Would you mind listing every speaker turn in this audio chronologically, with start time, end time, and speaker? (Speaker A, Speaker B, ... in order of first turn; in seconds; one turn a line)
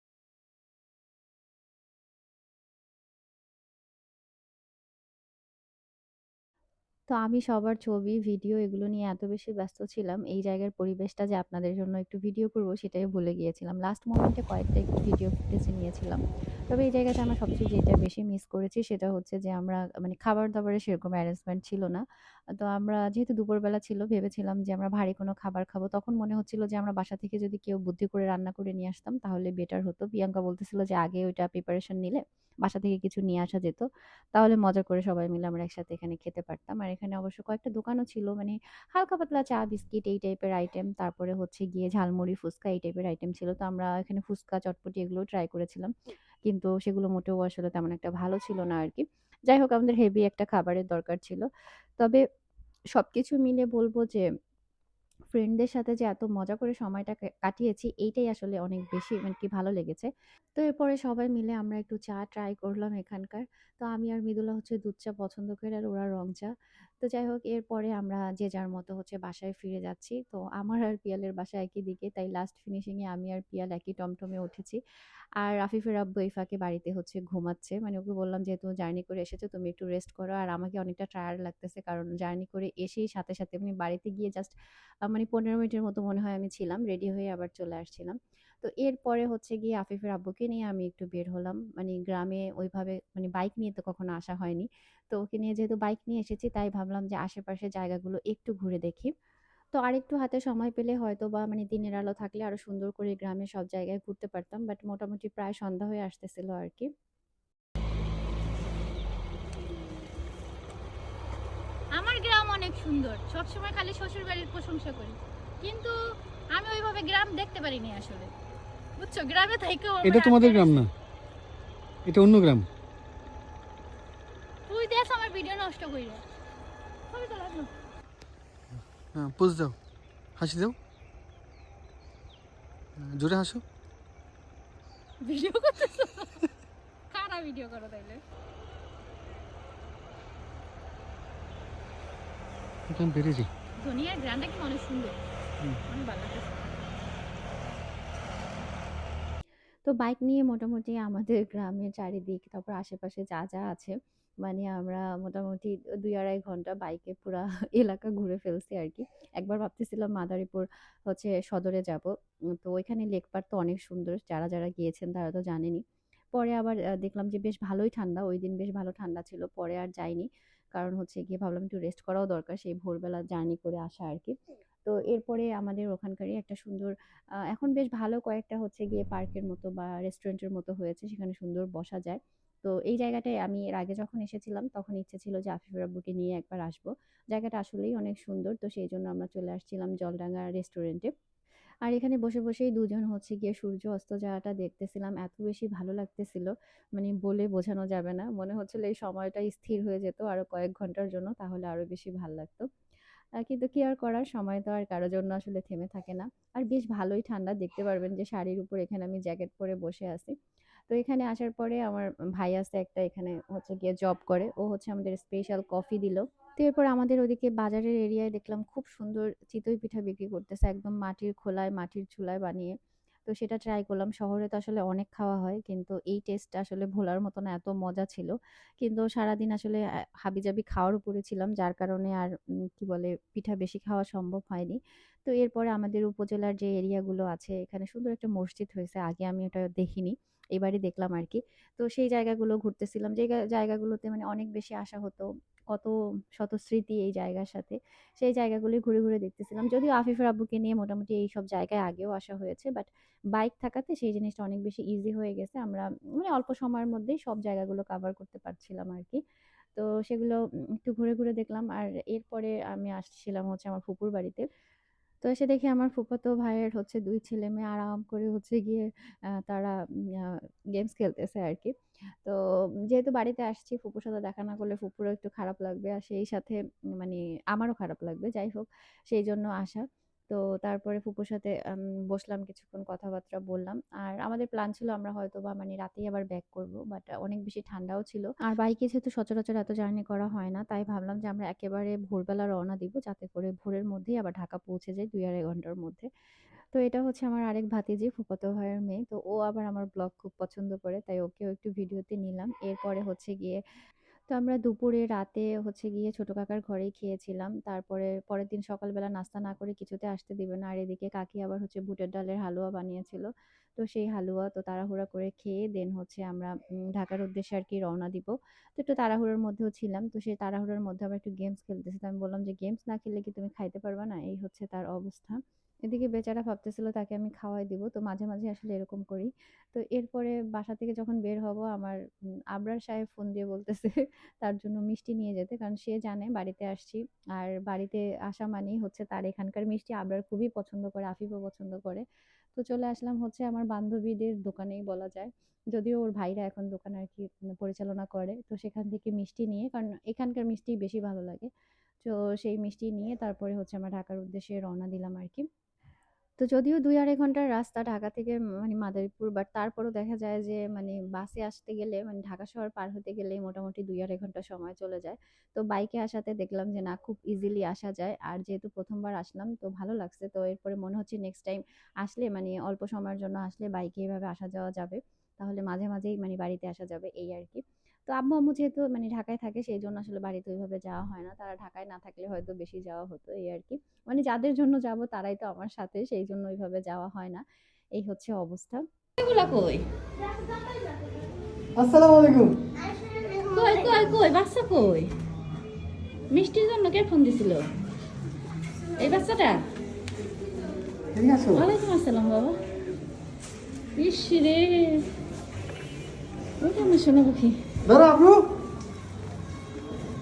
Speaker A: 7.1-22.0
Speaker A: 22.6-45.9
Speaker A: 46.5-51.5
Speaker A: 52.9-54.2
Speaker A: 55.3-74.8
Speaker A: 75.4-84.5
Speaker A: 85.0-99.1
Speaker A: 99.7-106.9
Speaker B: 111.9-116.0
Speaker B: 116.5-118.3
Speaker B: 119.0-120.8
Speaker C: 120.0-120.9
Speaker C: 122.0-122.7
Speaker B: 124.7-126.2
Speaker B: 127.1-127.7
Speaker C: 129.1-129.8
Speaker C: 130.3-130.8
Speaker C: 132.9-133.6
Speaker B: 135.2-136.5
Speaker B: 137.1-138.2
Speaker C: 142.9-143.5
Speaker B: 143.8-145.2
Speaker B: 145.9-146.8
Speaker A: 149.8-162.1
Speaker A: 162.6-165.8
Speaker A: 166.3-174.3
Speaker A: 174.8-176.9
Speaker A: 177.5-191.1
Speaker A: 191.8-202.7
Speaker A: 203.4-210.3
Speaker A: 210.9-222.7
Speaker A: 223.3-259.2
Speaker A: 259.8-264.5
Speaker A: 265.2-272.4
Speaker A: 272.9-296.1
Speaker A: 296.7-303.6
Speaker A: 304.3-332.0
Speaker A: 332.5-342.0
Speaker A: 342.6-351.5
Speaker A: 352.0-355.4
Speaker A: 356.4-387.4
Speaker A: 388.0-388.8
Speaker B: 389.2-389.8
Speaker C: 391.8-392.5
Speaker B: 393.5-395.1
Speaker B: 396.3-397.6
Speaker B: 399.0-399.6
Speaker C: 401.1-401.6
Speaker B: 401.5-402.6
Speaker B: 403.9-405.1
Speaker B: 406.6-407.6
Speaker C: 407.9-408.4